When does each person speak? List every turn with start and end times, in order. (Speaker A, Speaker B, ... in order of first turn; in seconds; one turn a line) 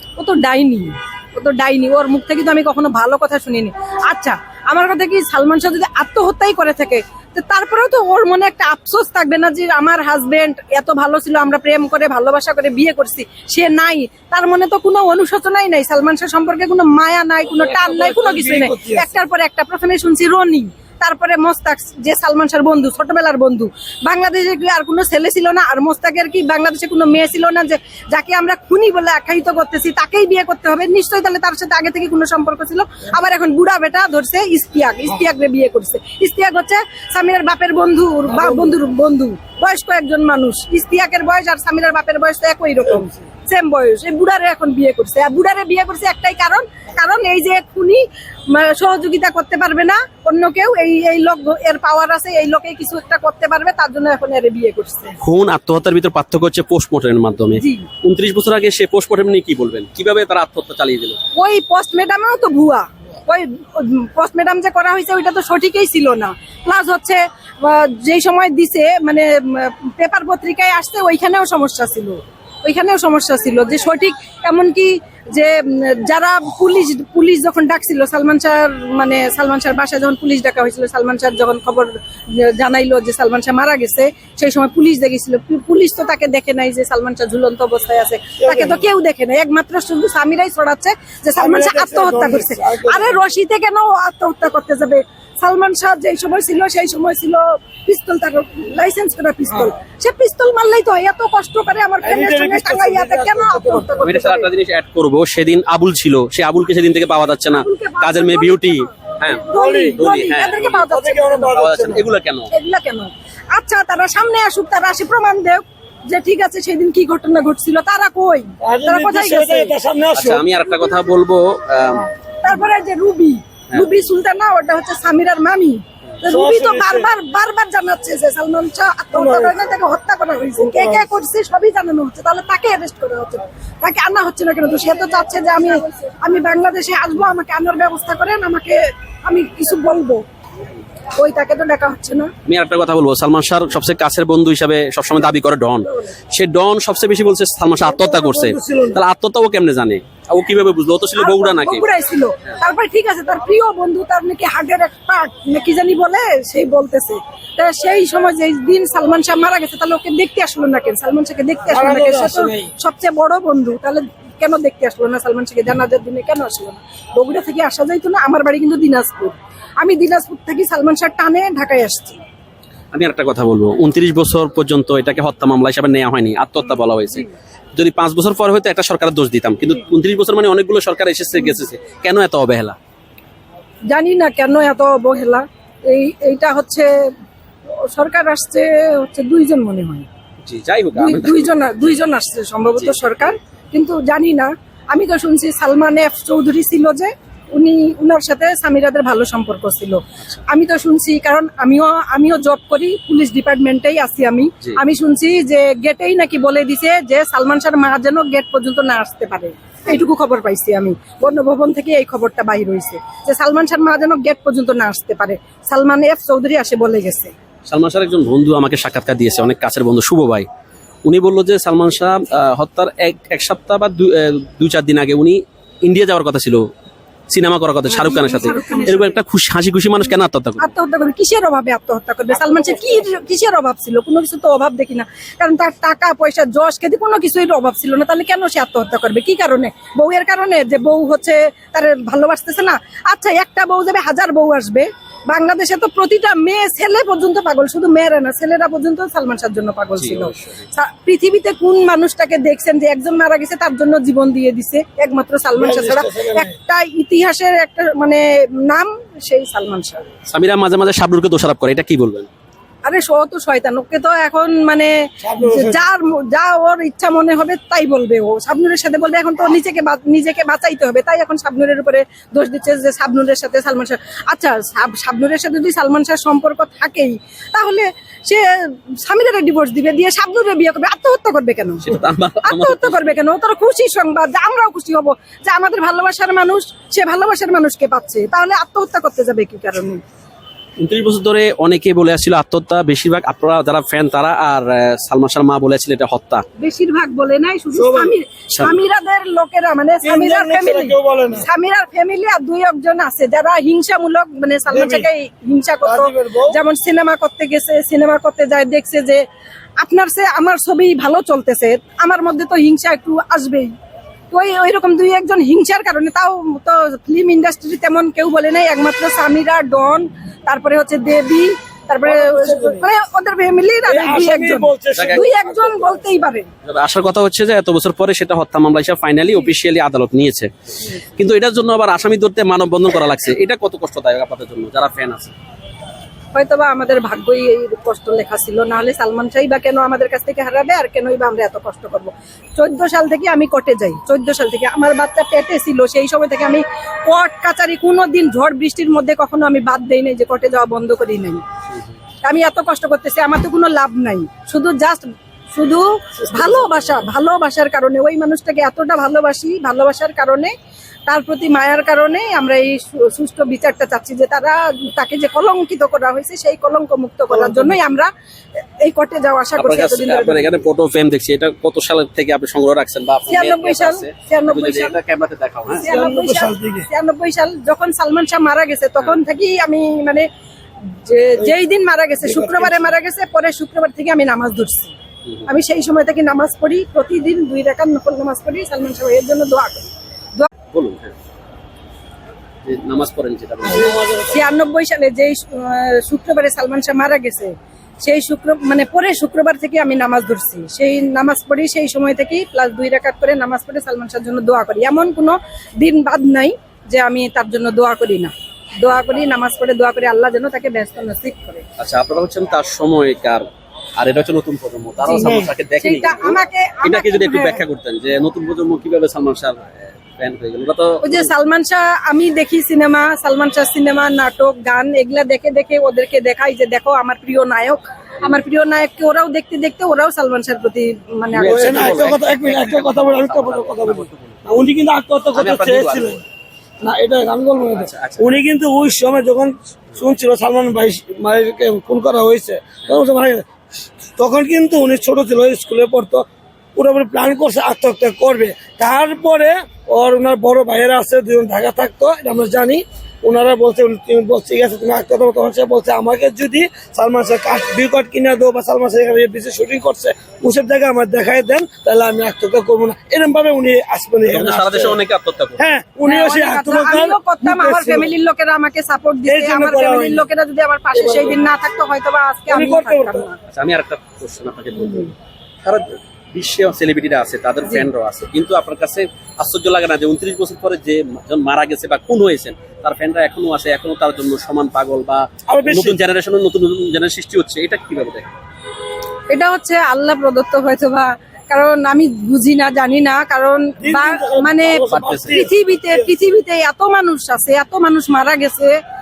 Speaker A: 0.2-55.2
Speaker B: 17.5-19.2
Speaker B: 38.3-38.8
Speaker C: 55.2-61.2
Speaker A: 57.6-57.9
Speaker A: 61.3-104.5
Speaker B: 88.4-88.8
Speaker B: 91.3-93.2
Speaker B: 102.0-104.1
Speaker C: 104.0-110.9
Speaker A: 107.5-111.5
Speaker B: 109.5-110.0
Speaker B: 110.7-112.0
Speaker C: 111.5-112.5
Speaker A: 112.5-119.7
Speaker B: 118.6-120.4
Speaker C: 120.2-122.1
Speaker A: 122.4-140.2
Speaker B: 126.2-127.1
Speaker B: 129.1-129.5
Speaker B: 130.6-131.1
Speaker A: 141.2-142.3
Speaker C: 142.5-151.8
Speaker B: 147.8-149.0
Speaker A: 151.2-172.2
Speaker B: 161.7-162.7
Speaker C: 172.9-182.8
Speaker A: 183.9-186.9
Speaker A: 187.9-190.1
Speaker C: 190.4-192.0
Speaker A: 190.9-217.3
Speaker C: 192.7-193.0
Speaker C: 217.7-220.5
Speaker C: 221.0-226.6
Speaker C: 227.3-230.7
Speaker A: 227.9-229.2
Speaker A: 230.6-260.1
Speaker C: 250.0-250.7
Speaker B: 255.5-256.5
Speaker C: 260.3-262.3
Speaker A: 262.8-281.9
Speaker B: 265.2-265.9
Speaker C: 281.8-283.2
Speaker A: 282.4-290.0
Speaker C: 290.8-296.4
Speaker A: 296.6-309.2
Speaker B: 297.7-298.1
Speaker B: 300.0-301.5
Speaker B: 304.7-305.1
Speaker B: 305.8-306.6
Speaker A: 309.8-313.7
Speaker A: 314.3-326.5
Speaker B: 322.0-322.9
Speaker B: 323.9-325.9
Speaker C: 324.9-325.2
Speaker C: 326.6-330.5
Speaker C: 331.2-335.3
Speaker A: 336.3-351.4
Speaker A: 352.2-360.5
Speaker B: 356.3-356.8
Speaker A: 361.1-368.1
Speaker B: 367.3-367.8
Speaker A: 368.8-370.5
Speaker C: 369.6-375.9
Speaker A: 373.3-375.0
Speaker A: 375.8-380.3
Speaker B: 375.8-376.9
Speaker A: 381.0-384.9
Speaker B: 382.2-382.9
Speaker A: 385.4-390.5
Speaker C: 390.7-391.1
Speaker C: 392.6-393.9
Speaker B: 393.6-394.5
Speaker A: 393.7-411.6
Speaker C: 411.8-413.4
Speaker C: 414.0-421.3
Speaker A: 415.0-417.6
Speaker B: 415.1-415.5
Speaker A: 421.0-432.1
Speaker C: 431.3-434.6
Speaker B: 431.4-436.2
Speaker C: 435.3-436.2
Speaker B: 436.8-443.4
Speaker C: 437.7-438.4
Speaker B: 444.2-465.0
Speaker C: 464.3-465.6
Speaker B: 465.6-468.1
Speaker A: 466.0-473.4
Speaker B: 469.2-470.3
Speaker B: 470.9-471.4
Speaker B: 472.5-473.3
Speaker C: 473.5-488.3
Speaker B: 485.5-486.0
Speaker A: 489.3-498.8
Speaker B: 493.8-496.1
Speaker C: 494.9-495.4